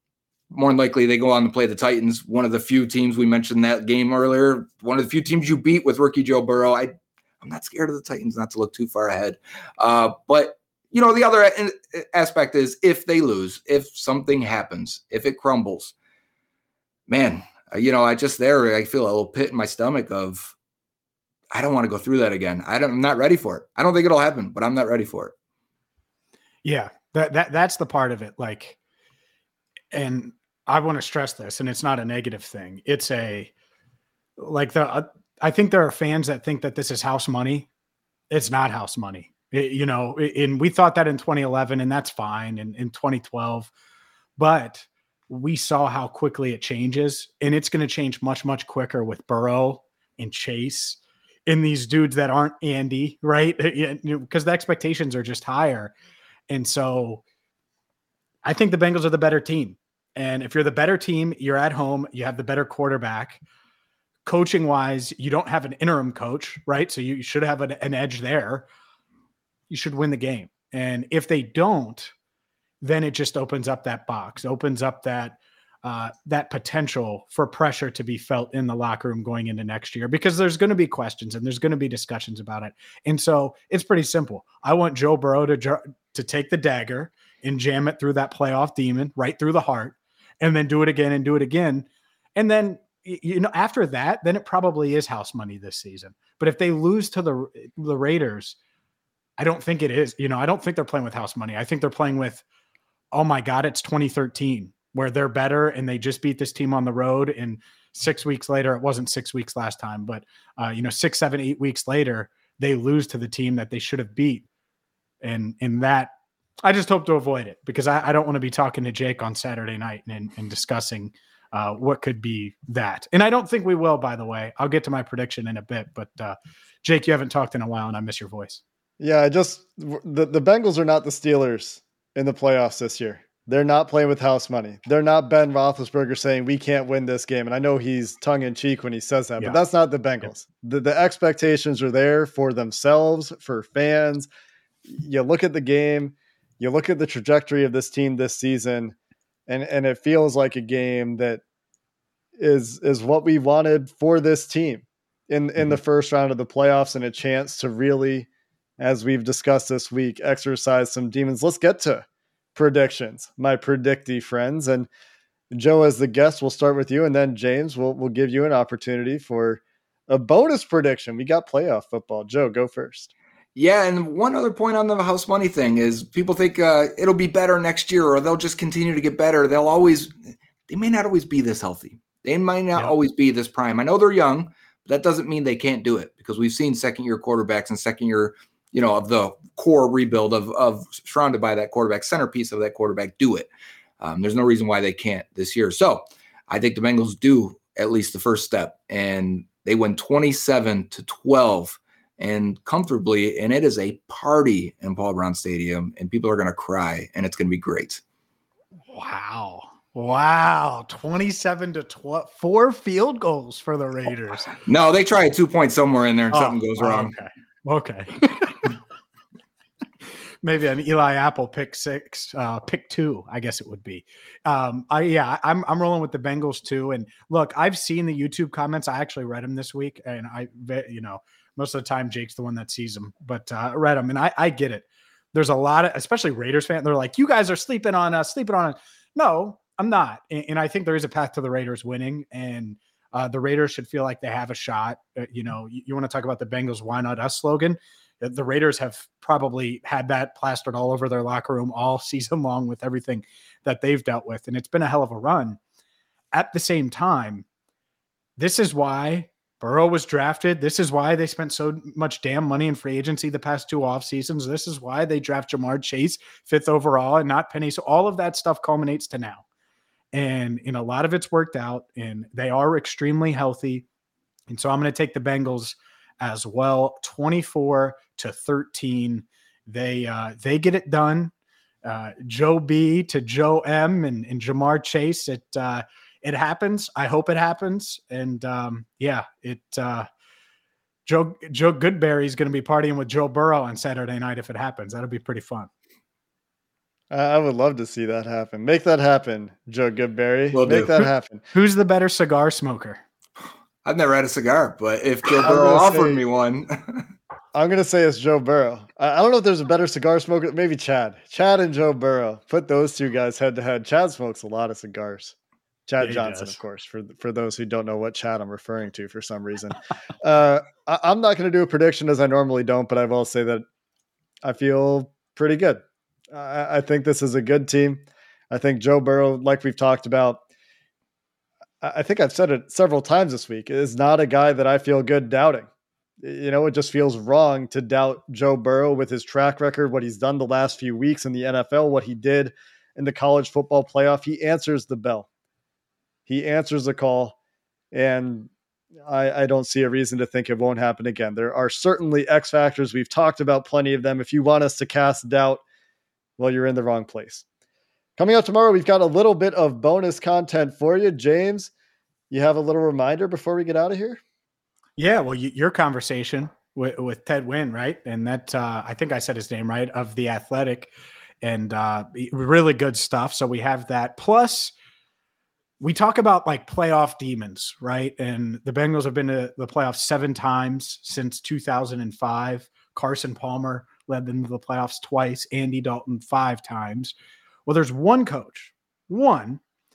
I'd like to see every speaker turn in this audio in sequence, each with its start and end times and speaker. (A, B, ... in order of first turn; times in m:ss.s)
0:00.5-0:15.9 A
0:17.1-0:20.5 A
0:21.5-0:25.3 A
0:26.6-0:28.8 B
0:29.9-0:33.5 B
0:34.4-0:37.7 B
0:38.3-0:43.7 B
0:44.4-0:55.9 B
0:56.5-0:57.2 B
0:58.4-1:03.4 B
1:04.2-1:08.6 B
1:09.7-1:12.1 B
1:12.8-1:38.6 B
1:39.4-1:42.4 B
1:43.1-1:54.4 B
1:55.2-1:56.1 B
1:56.6-2:08.6 B
2:09.0-2:24.3 C
2:24.8-2:29.0 C
2:29.5-2:31.4 C
2:32.4-2:38.3 C
2:38.8-2:44.9 C
2:45.5-2:53.1 C
2:53.6-3:00.1 A
3:00.7-3:28.0 A
3:28.9-3:34.5 B
3:34.6-3:37.1 A
3:36.3-3:38.7 B
3:40.4-4:15.6 B
4:16.3-4:17.4 B
4:18.4-4:29.4 B
4:30.1-4:33.8 B
4:34.5-4:41.3 B
4:41.8-4:50.1 B
4:51.0-4:55.7 B
4:57.1-5:01.4 C
5:00.5-5:00.9 A
5:00.9-5:03.0 B
5:03.8-5:07.1 A
5:05.4-5:06.2 C
5:07.5-5:15.3 C
5:15.9-5:23.6 C
5:16.0-5:16.6 B
5:24.4-5:30.4 C
5:31.8-5:35.7 C
5:36.2-5:45.3 C
5:46.3-5:47.4 C
5:47.9-5:48.5 C
5:49.0-5:55.6 C
5:56.4-5:57.4 C
5:58.2-6:01.7 C
6:02.3-6:04.2 C
6:05.0-6:10.9 B
6:11.4-6:14.7 B
6:15.8-6:27.1 B
6:27.6-6:29.6 B